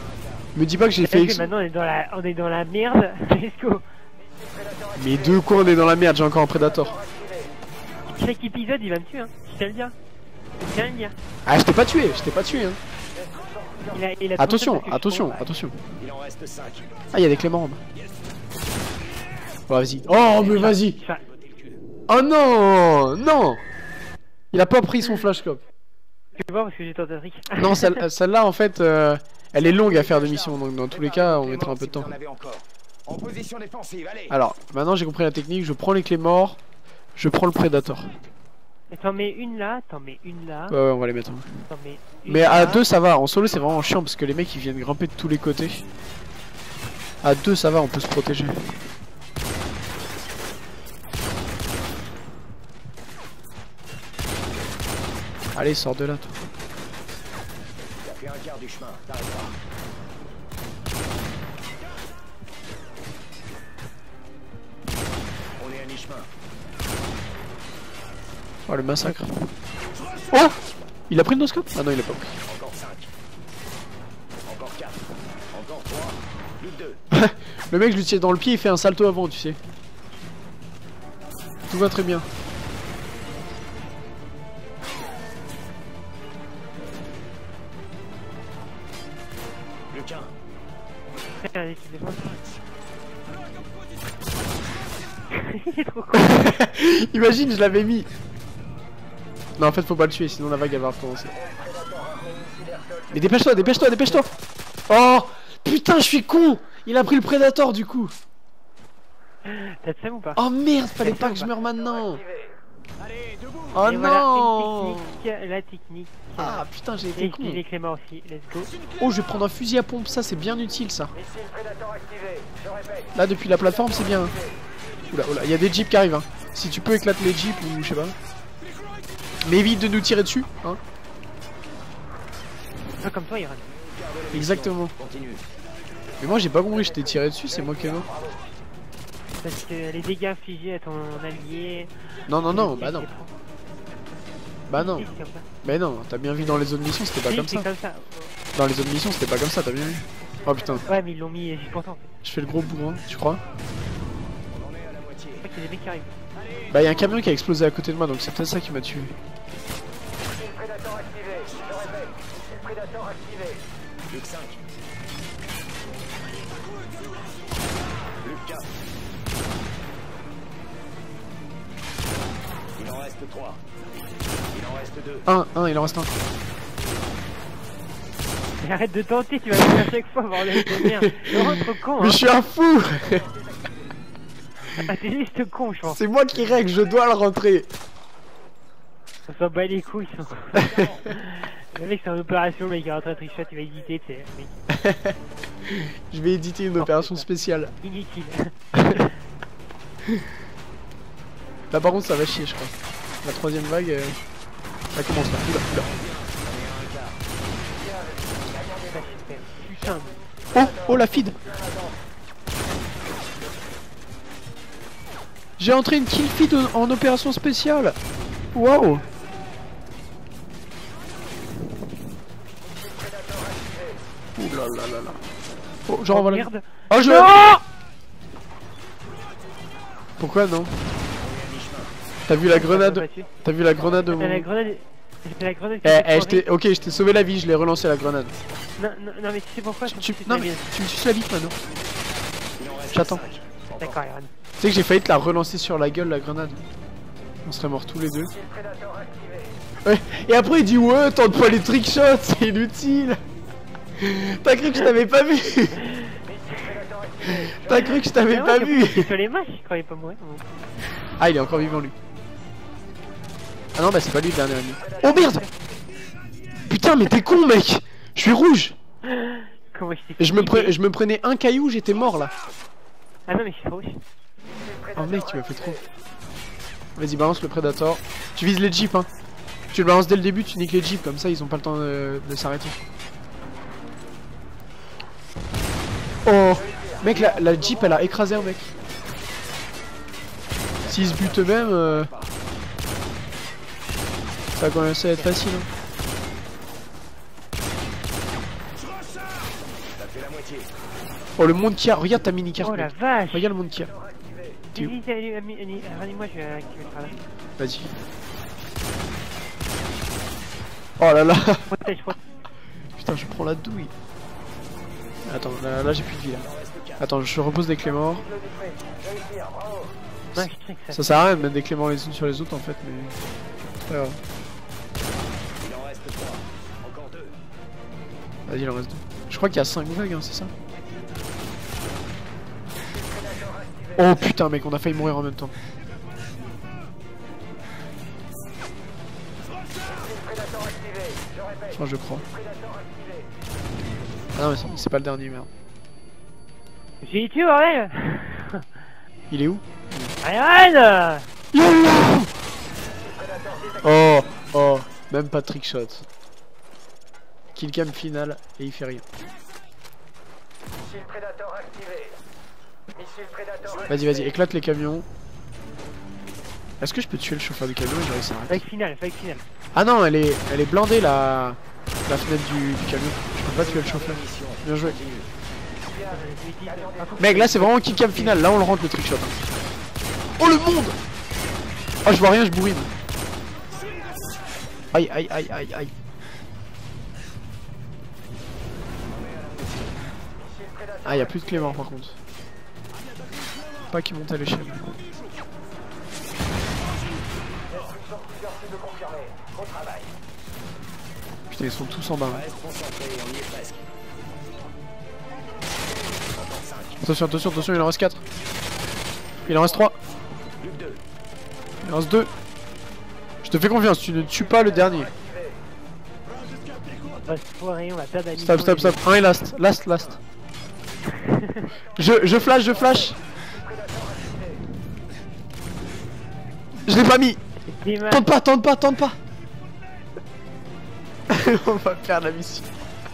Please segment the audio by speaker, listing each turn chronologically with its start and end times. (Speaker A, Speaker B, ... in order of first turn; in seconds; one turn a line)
Speaker A: 0.5-1.5
Speaker B: 1.0-3.8
Speaker A: 4.9-7.0
Speaker B: 8.1-9.9
Speaker B: 10.6-11.2
Speaker A: 11.4-12.8
Speaker B: 13.9-15.5
Speaker A: 14.4-15.8
Speaker C: 16.0-16.9
Speaker A: 17.1-17.8
Speaker A: 19.7-21.0
Speaker B: 20.4-21.2
Speaker A: 22.1-23.6
Speaker A: 24.5-25.6
Speaker B: 26.4-28.0
Speaker A: 27.6-32.1
Speaker C: 30.9-34.3
Speaker A: 34.3-36.6
Speaker A: 37.1-38.1
Speaker B: 38.9-40.8
Speaker A: 40.7-41.6
Speaker B: 41.7-42.8
Speaker A: 42.3-45.8
Speaker A: 47.2-48.8
Speaker A: 55.5-56.3
Speaker C: 58.0-59.5
Speaker C: 65.6-66.3
Speaker A: 68.7-69.3
Speaker A: 71.1-72.4
Speaker C: 72.5-73.1
Speaker C: 74.5-75.0
Speaker C: 75.5-77.0
Speaker A: 77.1-79.6
Speaker A: 81.7-82.3
Speaker C: 89.9-90.3
Speaker B: 91.4-92.4
Speaker B: 95.3-96.5
Speaker A: 96.1-98.1
Speaker A: 99.6-101.3
Speaker A: 103.1-104.3
Speaker A: 104.9-108.1
Speaker B: 109.4-110.4
Speaker A: 110.3-112.2
Speaker B: 111.0-111.5
Speaker A: 113.7-115.2
Speaker B: 113.8-118.8
Speaker A: 116.4-117.6
Speaker A: 119.0-121.2
Speaker A: 123.1-124.4
Speaker A: 125.1-128.2
Speaker A: 129.4-130.8
Speaker B: 133.0-133.7
Speaker C: 134.0-135.4
Speaker A: 134.3-134.9
Speaker A: 136.2-138.1
Speaker B: 139.4-143.3
Speaker A: 142.3-143.1
Speaker A: 144.7-147.7
Speaker B: 144.7-145.5
Speaker B: 147.3-148.3
Speaker A: 148.5-150.9
Speaker B: 150.9-152.1
Speaker A: 152.2-153.4
Speaker C: 154.5-155.4
Speaker B: 155.4-156.2
Speaker A: 156.7-159.2
Speaker C: 164.1-164.5
Speaker C: 168.2-168.6
Speaker C: 172.8-173.6
Speaker C: 174.5-175.2
Speaker A: 175.2-176.1
Speaker B: 178.6-182.2
Speaker A: 180.6-183.3
Speaker B: 184.8-186.0
Speaker A: 185.9-187.7
Speaker B: 189.3-194.6
Speaker A: 194.7-197.7
Speaker B: 196.8-197.3
Speaker B: 197.8-199.1
Speaker A: 198.8-199.1
Speaker A: 201.7-204.2
Speaker A: 204.9-205.9
Speaker C: 205.9-207.1
Speaker B: 208.8-210.2
Speaker A: 210.5-211.4
Speaker A: 215.6-217.9
Speaker A: 218.5-219.0
Speaker A: 224.4-225.2
Speaker A: 225.9-227.5
Speaker B: 226.1-227.6
Speaker A: 230.2-230.8
Speaker C: 231.2-231.9
Speaker A: 232.3-234.5
Speaker B: 232.4-233.3
Speaker B: 234.2-236.4
Speaker A: 235.8-238.3
Speaker B: 238.8-240.7
Speaker A: 239.8-241.6
Speaker C: 242.6-243.9
Speaker A: 242.9-243.2
Speaker B: 243.8-244.3
Speaker A: 244.6-246.6
Speaker A: 247.4-248.3
Speaker A: 249.8-253.2
Speaker A: 254.0-255.9
Speaker B: 256.7-260.4
Speaker A: 257.2-259.1
Speaker A: 261.2-261.9
Speaker A: 263.7-265.5
Speaker B: 265.0-265.5
Speaker A: 266.6-268.8
Speaker B: 269.1-270.8
Speaker A: 270.2-272.3
Speaker B: 273.3-274.0
Speaker A: 274.9-275.8
Speaker A: 276.9-279.1
Speaker A: 279.7-282.8
Speaker A: 286.2-288.7
Speaker A: 290.8-292.1
Speaker C: 290.9-292.0
Speaker A: 294.6-295.7
Speaker C: 300.0-300.7
Speaker A: 301.4-303.9
Speaker B: 302.6-303.5
Speaker B: 304.7-307.2
Speaker A: 307.6-307.9
Speaker A: 311.0-311.7
Speaker B: 311.7-312.2
Speaker A: 313.0-313.9
Speaker A: 315.2-318.3
Speaker A: 320.3-323.2
Speaker B: 320.3-321.4
Speaker A: 323.9-324.2
Speaker C: 325.6-327.3
Speaker A: 328.5-330.5
Speaker A: 333.9-335.5
Speaker A: 341.7-342.2
Speaker A: 344.3-345.5
Speaker B: 347.0-348.6
Speaker A: 349.3-350.1
Speaker B: 350.2-351.3
Speaker A: 351.5-352.3
Speaker A: 353.8-356.1
Speaker A: 357.5-359.0
Speaker A: 363.9-365.1
Speaker A: 366.8-368.6
Speaker B: 368.5-369.4
Speaker A: 369.7-375.0
Speaker C: 373.5-375.2
Speaker B: 375.9-378.5
Speaker A: 377.2-379.4
Speaker A: 380.4-381.0
Speaker A: 382.0-382.9
Speaker A: 384.9-385.9
Speaker A: 391.0-392.2
Speaker A: 393.9-395.0
Speaker A: 401.5-402.5
Speaker C: 402.4-403.8
Speaker C: 406.4-407.0
Speaker A: 407.0-408.2
Speaker A: 409.4-410.0
Speaker C: 410.6-411.0
Speaker A: 411.8-412.3
Speaker A: 413.4-415.1
Speaker B: 417.2-419.1
Speaker A: 418.4-420.2
Speaker B: 421.1-421.7
Speaker A: 421.9-423.2
Speaker A: 426.9-427.4
Speaker B: 427.6-428.2
Speaker A: 428.1-429.2
Speaker A: 431.3-432.7